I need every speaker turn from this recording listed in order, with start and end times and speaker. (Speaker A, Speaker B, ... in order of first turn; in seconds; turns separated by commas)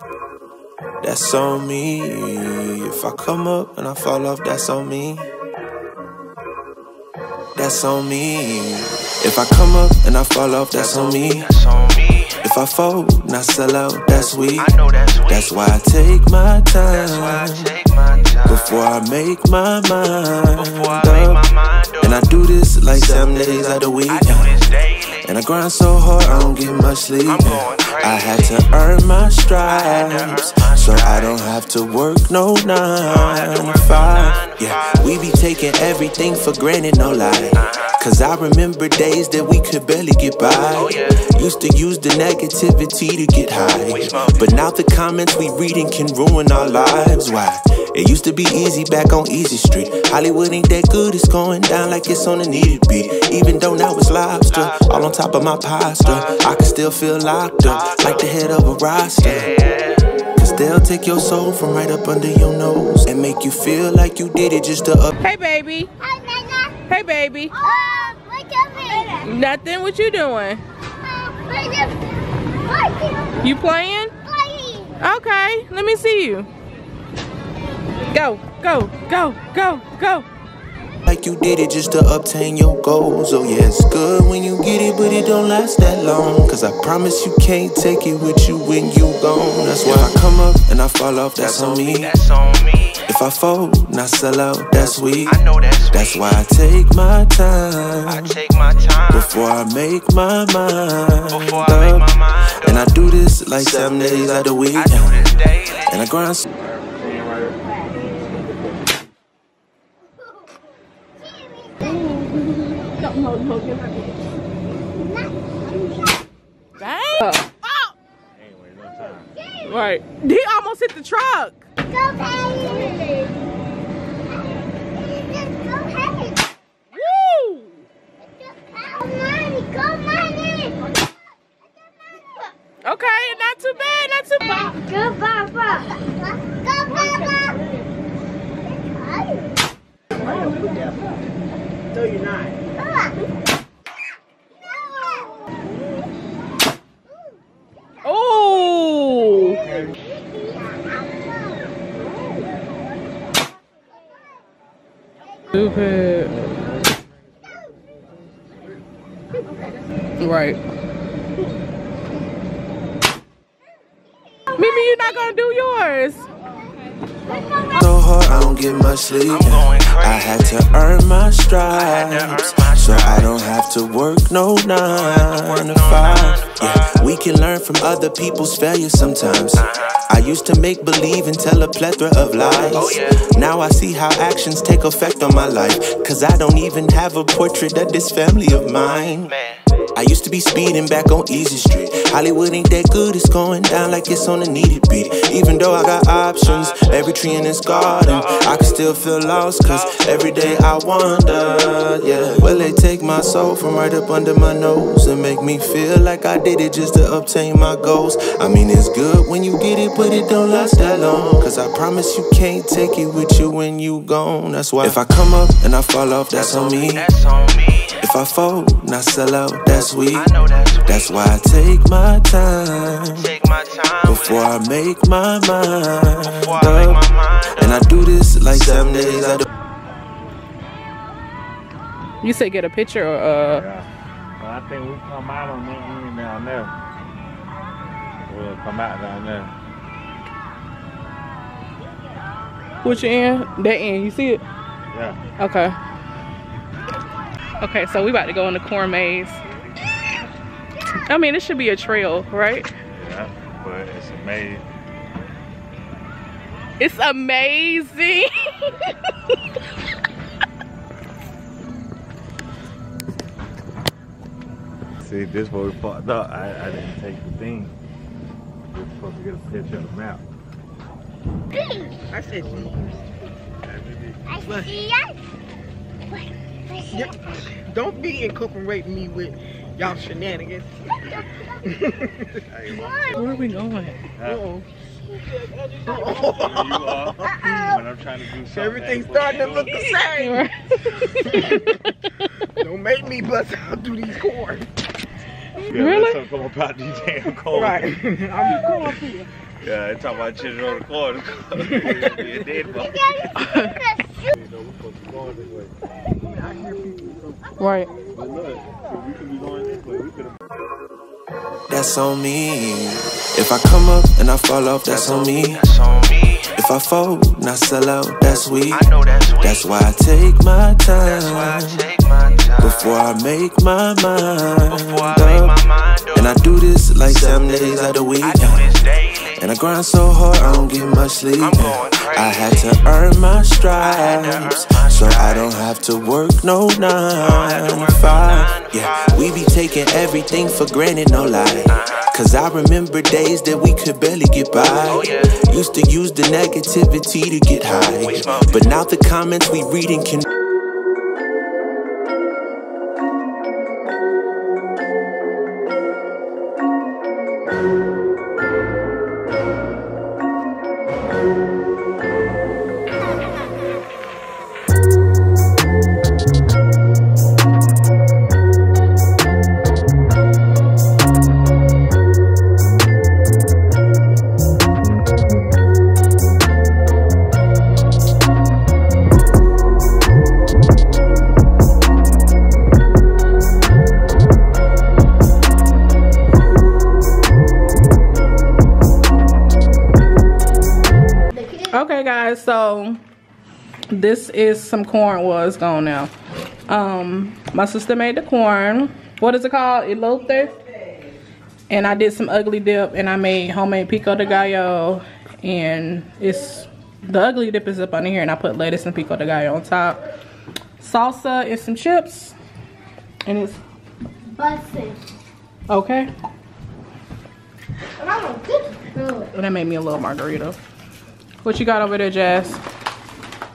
Speaker A: 1.0-5.3, Speaker A: 7.5-11.5, Speaker B: 10.7-12.4, Speaker A: 12.4-14.7, Speaker B: 14.1-15.7, Speaker A: 15.3-17.8, Speaker B: 16.9-18.9, Speaker A: 18.4-21.4, Speaker B: 20.5-22.3, Speaker A: 22.0-24.6, Speaker B: 22.9-25.3, Speaker A: 25.2-59.5, Speaker B: 26.2-28.8, Speaker B: 29.6-31.5, Speaker B: 33.0-35.1, Speaker B: 37.5-37.9, Speaker B: 40.7-41.2, Speaker B: 43.8-44.6, Speaker B: 54.5-55.1, Speaker B: 56.0-56.4, Speaker B: 57.6-58.3, Speaker B: 59.2-60.0, Speaker A: 60.4-65.1, Speaker C: 65.2-65.9, Speaker D: 66.0-66.8, Speaker C: 66.8-67.6, Speaker D: 67.5-69.3, Speaker C: 69.2-70.6, Speaker D: 71.0-72.0, Speaker D: 72.6-73.4, Speaker C: 73.4-74.1, Speaker D: 74.2-75.0, Speaker C: 75.0-76.5, Speaker C: 78.1-80.3, Speaker A: 81.0-92.1, Speaker B: 89.8-90.2, Speaker B: 91.4-93.0, Speaker A: 93.1-98.3, Speaker B: 94.8-96.4, Speaker B: 98.1-99.3, Speaker A: 99.1-105.2, Speaker B: 101.3-103.0, Speaker B: 103.5-106.0, Speaker A: 105.8-106.5, Speaker E: 106.6-107.5, Speaker D: 111.7-112.1, Speaker C: 113.0-114.0, Speaker D: 114.9-116.1, Speaker C: 116.8-117.7, Speaker E: 118.4-119.3, Speaker C: 119.6-121.6, Speaker D: 121.9-123.3, Speaker D: 125.0-126.4, Speaker C: 126.9-127.8, Speaker D: 128.2-130.9, Speaker D: 132.1-132.4, Speaker C: 132.8-134.8, Speaker D: 134.4-137.7, Speaker D: 139.0-139.5, Speaker D: 144.9-145.4, Speaker C: 148.0-149.6, Speaker C: 155.5-156.4, Speaker C: 160.2-160.6, Speaker C: 164.5-166.3, Speaker A: 167.6-189.3, Speaker B: 169.3-170.7, Speaker B: 171.7-173.5, Speaker B: 174.9-177.0, Speaker B: 179.6-180.0, Speaker B: 182.4-183.2, Speaker B: 188.6-189.6, Speaker A: 189.9-217.1, Speaker B: 196.4-197.2, Speaker B: 197.7-198.8, Speaker B: 199.6-200.6, Speaker B: 210.3-211.4, Speaker B: 216.3-218.0, Speaker A: 218.0-220.3, Speaker B: 219.7-221.5, Speaker A: 220.8-223.3, Speaker B: 223.1-224.5, Speaker A: 224.0-227.0, Speaker B: 226.2-228.0, Speaker A: 227.5-229.4, Speaker B: 228.5-229.4, Speaker C: 232.2-233.6, Speaker E: 233.5-236.7, Speaker E: 238.3-239.5, Speaker C: 242.8-244.4, Speaker E: 244.9-245.2, Speaker C: 245.4-245.8, Speaker C: 247.6-249.4, Speaker C: 251.1-252.7, Speaker E: 252.9-254.7, Speaker C: 256.8-258.9, Speaker E: 265.0-267.8, Speaker E: 268.7-270.2, Speaker F: 272.0-273.0, Speaker E: 273.6-274.3, Speaker D: 274.3-275.1, Speaker F: 274.4-274.8, Speaker D: 276.1-277.3, Speaker F: 276.9-280.7, Speaker F: 281.7-282.1, Speaker E: 282.5-283.2, Speaker D: 282.8-283.2, Speaker C: 283.1-284.0, Speaker E: 284.2-284.4, Speaker F: 284.3-284.6, Speaker F: 285.8-287.8, Speaker E: 286.5-289.6, Speaker F: 288.5-290.4, Speaker C: 289.7-291.7, Speaker F: 292.6-294.7, Speaker C: 295.6-296.2, Speaker E: 295.7-297.8, Speaker F: 297.5-299.3, Speaker E: 299.6-303.4, Speaker F: 301.6-302.2, Speaker C: 303.4-303.8, Speaker F: 306.2-307.2, Speaker C: 307.6-307.9, Speaker E: 308.2-310.2, Speaker A: 311.7-315.6, Speaker B: 314.9-316.5, Speaker A: 316.5-321.8, Speaker B: 318.4-319.8, Speaker B: 321.0-322.9, Speaker A: 322.6-325.6, Speaker B: 324.7-326.4, Speaker A: 326.1-328.7, Speaker B: 327.0-329.4, Speaker A: 329.3-350.2, Speaker B: 331.4-332.8, Speaker B: 333.7-335.6, Speaker B: 337.2-339.1, Speaker B: 341.7-342.0, Speaker B: 344.9-345.4, Speaker B: 347.9-348.8, Speaker D: 391.3-391.7, Speaker C: 391.7-393.0, Speaker C: 393.9-396.1, Speaker C: 396.7-400.6, Speaker C: 401.7-410.0, Speaker C: 410.8-412.3, Speaker C: 413.3-413.6, Speaker D: 414.3-415.0, Speaker C: 415.7-416.1, Speaker D: 418.0-419.3, Speaker C: 419.3-420.6, Speaker C: 421.4-422.6